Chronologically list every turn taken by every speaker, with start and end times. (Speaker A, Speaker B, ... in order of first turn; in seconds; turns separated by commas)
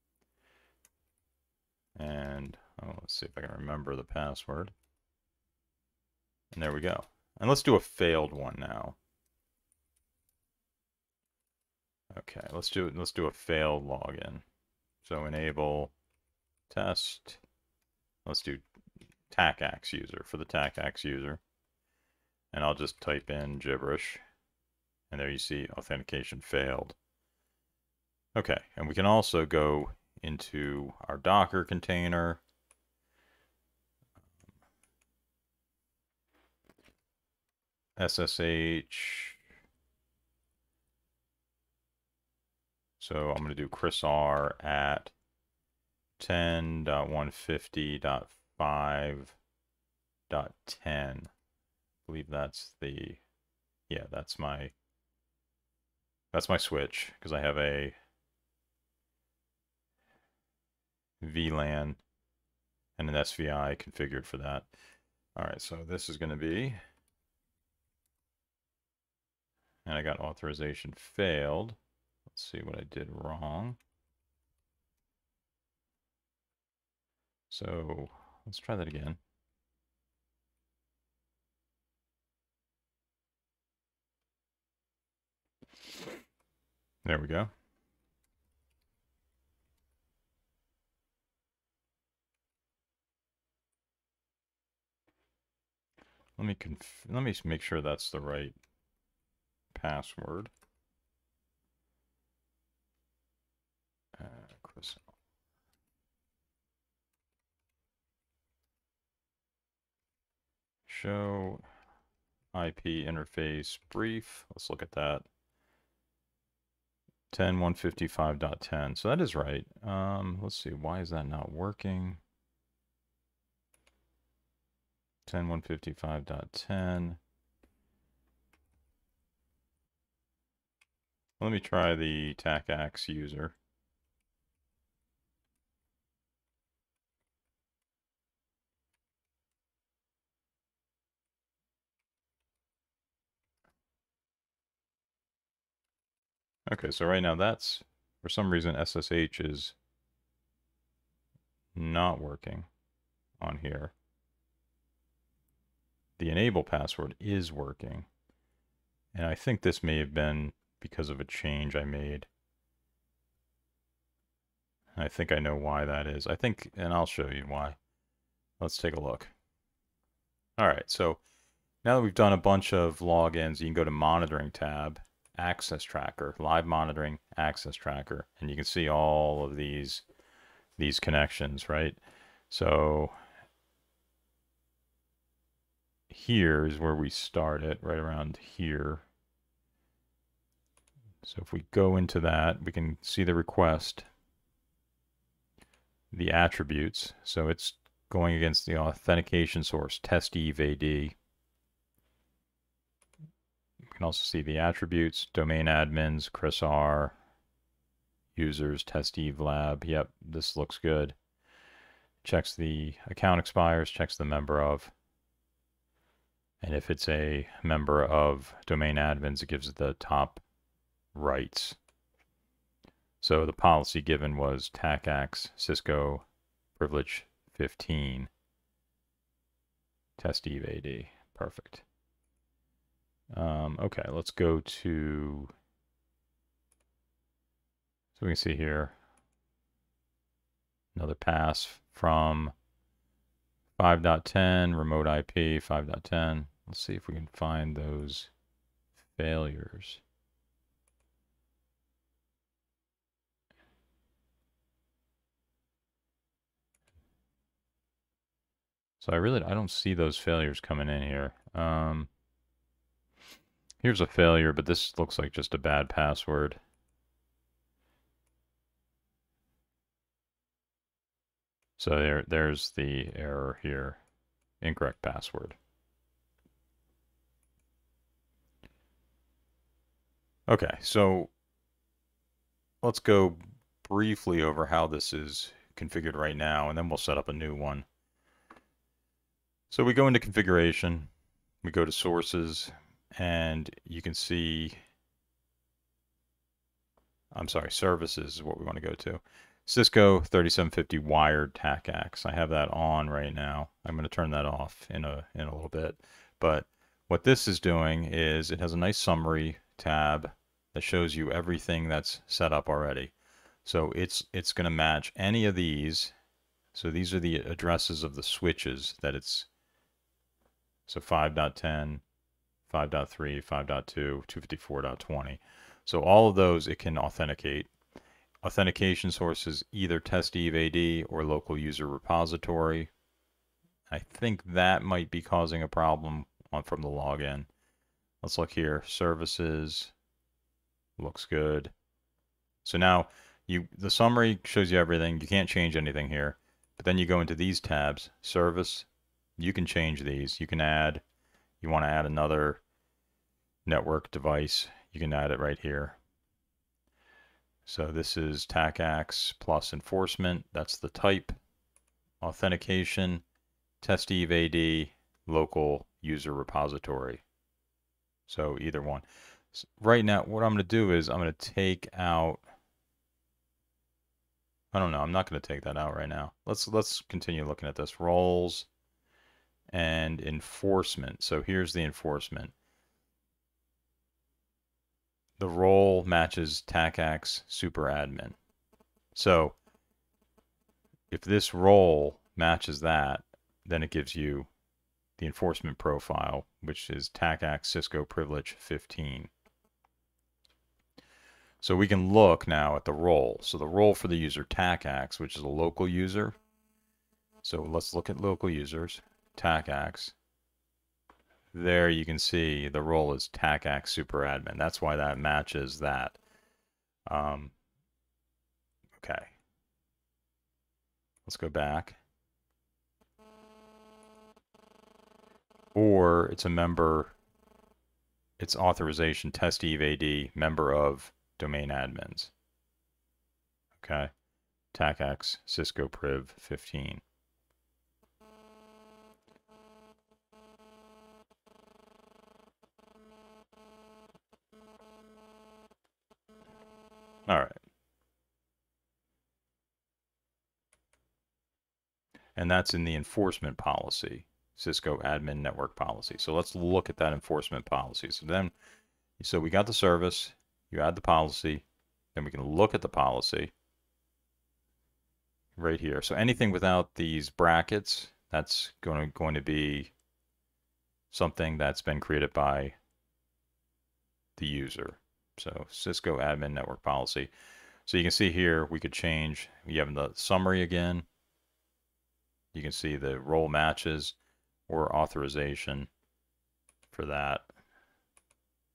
Speaker A: 1.9-4.7, Speaker A: 6.5-9.0, Speaker A: 12.1-14.4, Speaker A: 15.0-15.9, Speaker A: 16.7-17.4, Speaker A: 18.2-18.6, Speaker A: 19.3-21.4, Speaker A: 22.5-24.2, Speaker A: 25.1-27.0, Speaker A: 28.3-32.4, Speaker A: 38.0-39.4, Speaker A: 43.0-45.1, Speaker A: 46.2-49.4, Speaker A: 50.3-51.3, Speaker A: 52.1-53.2, Speaker A: 53.9-54.7, Speaker A: 56.3-58.0, Speaker A: 61.2-62.0, Speaker A: 63.0-64.7, Speaker A: 65.3-66.8, Speaker A: 69.8-71.8, Speaker A: 72.3-73.8, Speaker A: 77.5-79.2, Speaker A: 87.0-87.5, Speaker A: 96.4-98.5, Speaker A: 99.7-100.5, Speaker A: 104.2-105.0, Speaker A: 110.9-111.6, Speaker A: 112.5-115.3, Speaker A: 117.3-122.2, Speaker A: 125.2-127.2, Speaker A: 131.4-133.6, Speaker A: 146.7-149.8, Speaker A: 151.7-152.7, Speaker A: 153.4-153.9, Speaker A: 156.2-158.1, Speaker A: 159.1-162.3, Speaker A: 164.9-167.8, Speaker A: 168.6-169.3, Speaker A: 170.6-171.2, Speaker A: 171.8-180.0, Speaker A: 180.8-183.2, Speaker A: 186.1-189.0, Speaker A: 191.2-194.1, Speaker A: 196.1-201.1, Speaker A: 203.9-207.2, Speaker A: 208.3-211.2, Speaker A: 212.2-214.9, Speaker A: 216.6-220.4, Speaker A: 221.1-221.8, Speaker A: 223.2-226.2, Speaker A: 226.8-228.3, Speaker A: 230.2-231.8, Speaker A: 233.3-235.5, Speaker A: 238.2-238.9, Speaker A: 240.9-242.5, Speaker A: 243.8-248.3, Speaker A: 249.2-250.0, Speaker A: 259.0-262.1, Speaker A: 263.8-266.6, Speaker A: 271.8-274.0, Speaker A: 274.6-275.6, Speaker A: 280.5-281.3, Speaker A: 282.8-287.9, Speaker A: 289.7-291.1, Speaker A: 291.6-294.8, Speaker A: 297.3-313.1, Speaker A: 313.6-316.1, Speaker A: 316.7-319.5, Speaker A: 320.9-322.0, Speaker A: 322.7-327.7, Speaker A: 328.4-332.9, Speaker A: 333.9-337.5, Speaker A: 338.2-339.9, Speaker A: 341.0-341.7, Speaker A: 342.6-351.0, Speaker A: 351.6-352.6, Speaker A: 353.6-356.0, Speaker A: 357.6-361.4, Speaker A: 362.2-363.2, Speaker A: 363.8-367.2, Speaker A: 368.3-372.4, Speaker A: 374.7-378.7, Speaker A: 379.7-382.5, Speaker A: 385.4-388.4, Speaker A: 389.1-389.6, Speaker A: 391.1-394.5, Speaker A: 395.2-399.3, Speaker A: 401.6-406.3, Speaker A: 407.4-410.1, Speaker A: 411.5-416.2, Speaker A: 417.1-417.5, Speaker A: 419.0-419.4, Speaker A: 421.2-422.0, Speaker A: 425.7-427.1, Speaker A: 428.4-432.3, Speaker A: 433.8-434.1, Speaker A: 434.7-437.0, Speaker A: 447.3-447.6, Speaker A: 452.4-458.5, Speaker A: 459.2-463.5, Speaker A: 465.6-469.9, Speaker A: 471.1-472.8, Speaker A: 474.4-477.3, Speaker A: 477.8-481.1, Speaker A: 482.5-484.1, Speaker A: 484.7-485.9, Speaker A: 486.9-487.5